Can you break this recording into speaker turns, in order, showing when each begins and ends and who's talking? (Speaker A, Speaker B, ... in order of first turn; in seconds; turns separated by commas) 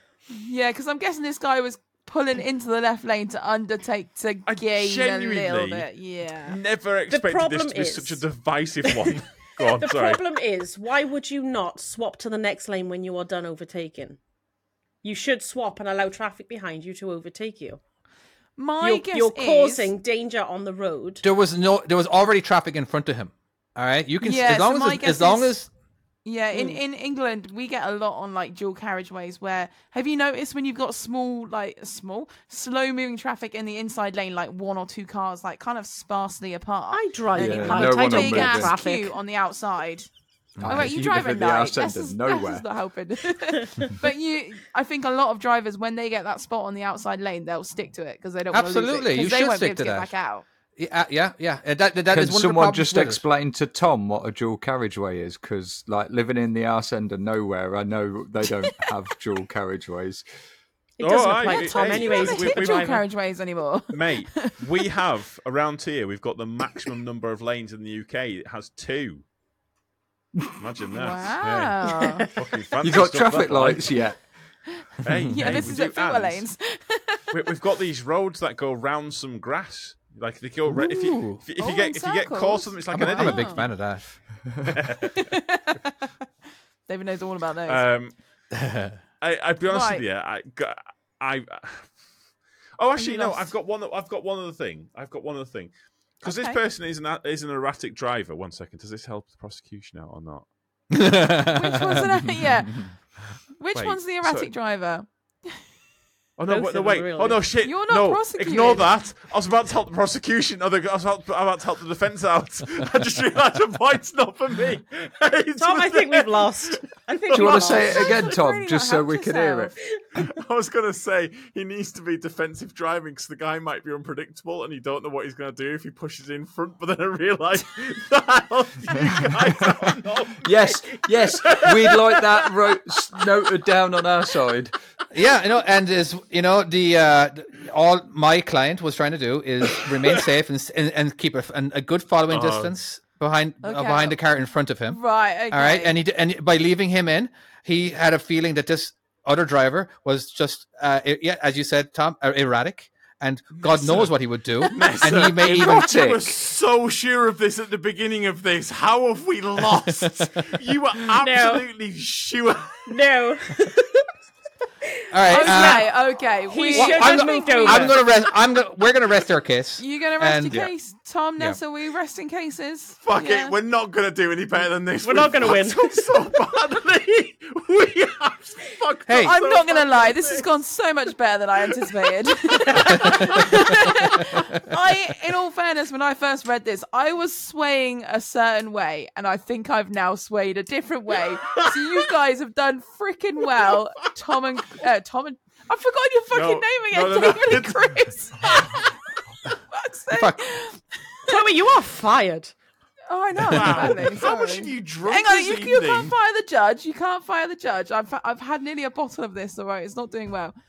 Speaker A: 0.3-6.6, Speaker B: 4.5-5.9, Speaker B: 6.5-10.2, Speaker C: 7.1-8.2, Speaker C: 9.8-14.2, Speaker C: 15.0-17.8, Speaker A: 18.6-19.9, Speaker C: 18.8-21.2, Speaker D: 21.2-25.7, Speaker A: 24.2-25.6, Speaker A: 26.2-40.1, Speaker C: 26.5-26.8, Speaker C: 36.9-39.1, Speaker E: 37.4-38.8, Speaker D: 40.6-40.9, Speaker E: 40.6-42.6, Speaker A: 40.7-50.5, Speaker D: 48.5-50.1, Speaker D: 50.8-53.2, Speaker E: 52.1-60.2, Speaker C: 61.0-63.0, Speaker B: 61.0-62.9, Speaker A: 61.4-64.6, Speaker B: 63.9-69.2, Speaker B: 70.6-74.0, Speaker A: 70.9-72.3, Speaker C: 71.9-72.3, Speaker E: 72.8-74.2, Speaker B: 75.0-76.5, Speaker A: 75.3-77.2, Speaker B: 77.3-83.7, Speaker D: 80.7-81.4, Speaker A: 81.6-83.7, Speaker D: 82.9-84.0, Speaker B: 84.7-85.4, Speaker A: 85.2-85.9, Speaker A: 86.9-87.8, Speaker B: 87.7-88.2, Speaker D: 88.5-89.0, Speaker B: 89.2-92.0, Speaker A: 89.7-90.0, Speaker B: 92.8-100.5, Speaker A: 93.0-93.5, Speaker A: 96.2-96.6, Speaker D: 100.9-102.1, Speaker A: 101.5-103.0, Speaker A: 103.6-105.6, Speaker B: 103.7-104.5, Speaker B: 106.4-117.8, Speaker C: 106.5-107.5, Speaker A: 107.6-108.9, Speaker C: 115.6-118.1, Speaker E: 117.3-119.7, Speaker A: 117.8-119.7, Speaker B: 120.2-132.2, Speaker E: 130.4-134.7, Speaker D: 135.1-156.1, Speaker B: 142.3-142.7, Speaker A: 143.6-144.2, Speaker A: 144.9-145.9, Speaker B: 153.6-162.9, Speaker E: 155.2-156.3, Speaker C: 161.2-161.6, Speaker C: 162.9-164.1, Speaker D: 165.1-165.9, Speaker C: 165.3-165.9, Speaker A: 165.3-168.0, Speaker C: 166.5-168.0, Speaker D: 166.7-170.6, Speaker A: 169.8-173.6, Speaker B: 173.0-180.5, Speaker C: 175.0-176.2, Speaker D: 179.1-179.3, Speaker A: 179.1-201.4, Speaker C: 182.6-183.5, Speaker D: 183.0-183.5, Speaker D: 184.2-184.6, Speaker B: 196.3-198.8, Speaker D: 200.1-200.4, Speaker C: 201.3-202.5, Speaker A: 203.1-210.6, Speaker B: 203.4-206.2